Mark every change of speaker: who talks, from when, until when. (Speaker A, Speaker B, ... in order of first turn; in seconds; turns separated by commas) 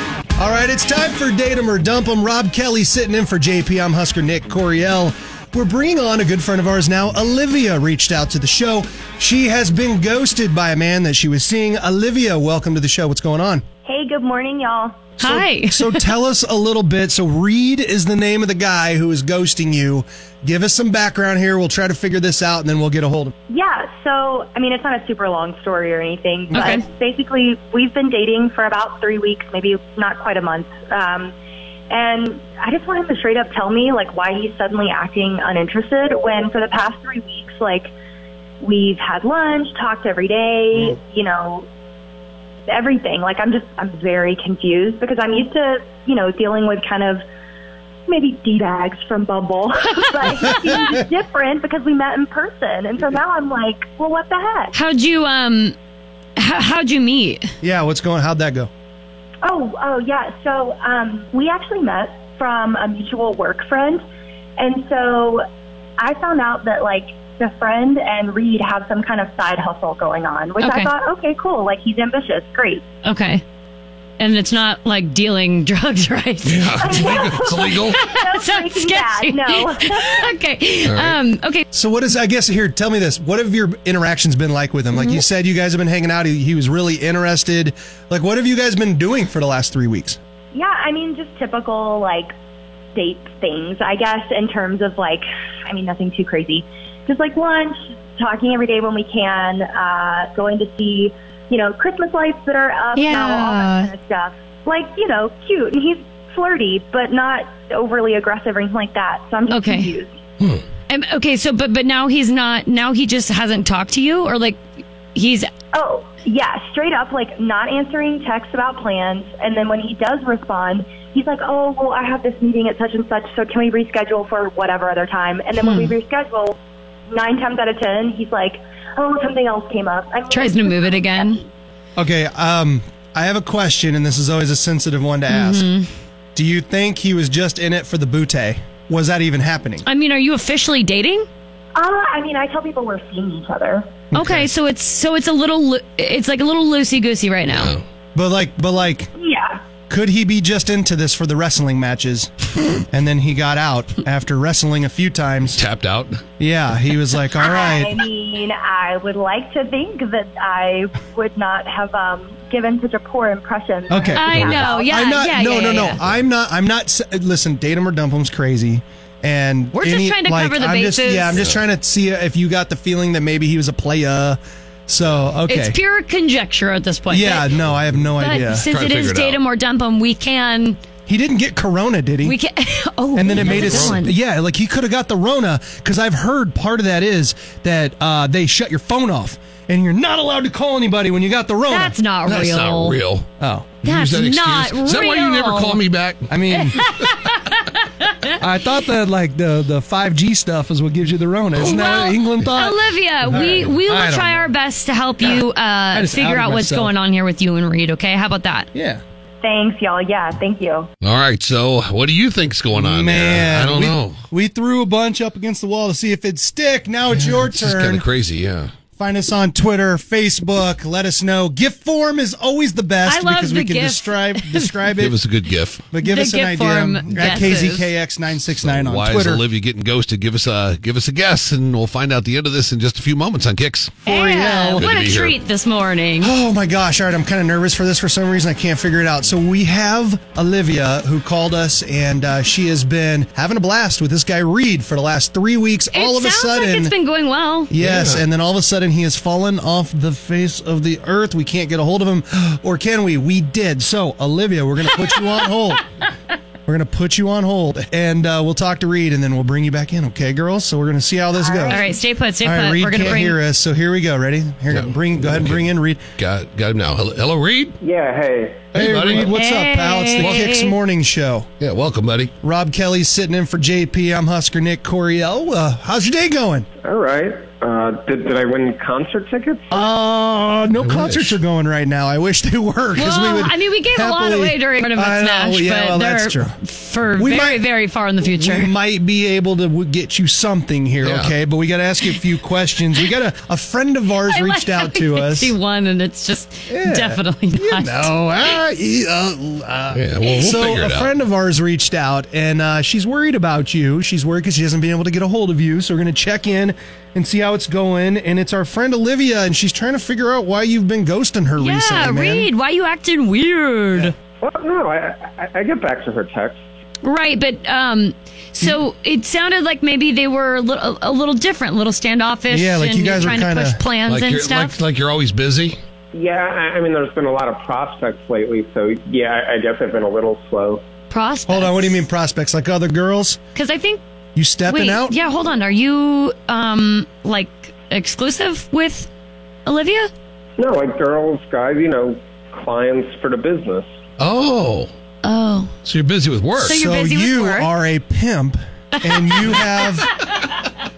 Speaker A: 0.4-13.6, Speaker B: 13.8-15.1, Speaker C: 15.2-16.1, Speaker A: 15.2-23.3, Speaker B: 23.5-31.3, Speaker C: 26.5-26.8, Speaker B: 31.9-37.9, Speaker B: 38.6-41.7, Speaker B: 42.7-47.2, Speaker B: 48.1-54.7, Speaker C: 50.2-50.7, Speaker A: 50.5-50.9, Speaker C: 54.7-55.7, Speaker C: 56.4-57.5, Speaker A: 57.6-58.7, Speaker B: 59.4-64.0, Speaker B: 64.6-65.4, Speaker B: 66.0-72.8, Speaker C: 70.6-70.9, Speaker C: 73.0-73.4, Speaker C: 74.2-77.2, Speaker D: 76.4-78.0, Speaker B: 76.8-80.3, Speaker C: 77.8-81.6, Speaker D: 80.8-81.2, Speaker A: 81.7-90.2, Speaker B: 90.5-92.3, Speaker B: 92.9-110.1, Speaker C: 103.0-103.9, Speaker C: 109.5-109.9, Speaker C: 110.9-114.6, Speaker C: 115.1-115.5, Speaker B: 115.7-126.6, Speaker C: 125.6-125.9, Speaker B: 127.1-131.4, Speaker C: 130.3-131.4, Speaker A: 132.0-135.7, Speaker C: 135.3-135.9, Speaker A: 136.3-139.8, Speaker C: 139.8-141.3, Speaker B: 141.7-144.0, Speaker A: 144.1-144.5, Speaker C: 144.1-147.7, Speaker D: 147.5-147.8, Speaker A: 148.1-149.1, Speaker B: 149.2-149.6, Speaker A: 149.9-155.6, Speaker D: 155.5-156.2, Speaker A: 156.4-158.0, Speaker B: 157.4-164.9, Speaker A: 163.9-175.8, Speaker C: 164.1-166.0, Speaker C: 169.7-171.4, Speaker C: 175.5-177.6, Speaker A: 177.1-178.7, Speaker D: 177.7-179.4, Speaker C: 178.2-180.8, Speaker A: 181.1-182.3, Speaker C: 182.2-184.1, Speaker A: 183.1-192.0, Speaker D: 183.3-184.0, Speaker C: 191.7-193.0, Speaker D: 192.2-193.3, Speaker A: 193.4-193.7, Speaker C: 193.8-195.8, Speaker D: 193.8-196.4, Speaker A: 196.3-196.8, Speaker C: 196.5-198.4, Speaker A: 198.4-204.5, Speaker C: 201.6-208.7, Speaker A: 205.2-206.9, Speaker A: 208.7-209.0, Speaker B: 209.4-210.9, Speaker D: 211.0-214.2, Speaker A: 212.7-218.0, Speaker D: 217.1-218.7, Speaker A: 219.0-225.2, Speaker C: 223.1-224.8, Speaker D: 225.0-225.8, Speaker A: 225.9-229.4, Speaker C: 226.0-227.9, Speaker D: 228.5-234.0, Speaker A: 234.0-234.9, Speaker C: 234.1-236.3, Speaker D: 234.7-235.3, Speaker A: 236.2-246.9, Speaker C: 245.9-247.7, Speaker A: 247.7-255.8, Speaker D: 247.8-248.2, Speaker A: 256.7-261.9, Speaker B: 261.3-262.0, Speaker C: 261.7-263.4, Speaker A: 262.4-266.0, Speaker D: 264.7-267.8, Speaker E: 267.8-268.7, Speaker D: 268.7-269.3, Speaker A: 268.7-271.5, Speaker C: 269.3-270.7, Speaker D: 270.2-270.6, Speaker D: 271.6-272.3, Speaker A: 272.4-276.6, Speaker E: 276.8-279.8, Speaker A: 279.7-286.6, Speaker D: 280.8-281.4, Speaker C: 282.9-288.7, Speaker A: 287.1-287.7, Speaker A: 288.2-295.5, Speaker D: 291.0-291.3, Speaker C: 294.3-298.1, Speaker A: 296.7-312.5, Speaker D: 299.9-301.1, Speaker C: 311.6-314.1, Speaker E: 314.4-316.6, Speaker C: 317.0-324.8, Speaker A: 322.5-323.8, Speaker D: 324.1-325.8, Speaker E: 326.1-330.8, Speaker C: 331.1-332.1, Speaker A: 331.5-333.4, Speaker C: 333.5-334.0, Speaker A: 334.3-335.1, Speaker C: 334.7-339.1, Speaker C: 339.6-340.1, Speaker E: 340.6-343.9, Speaker D: 344.2-344.9, Speaker C: 345.2-345.7, Speaker D: 345.8-346.8, Speaker C: 346.6-347.7, Speaker A: 346.6-350.1, Speaker C: 349.0-350.4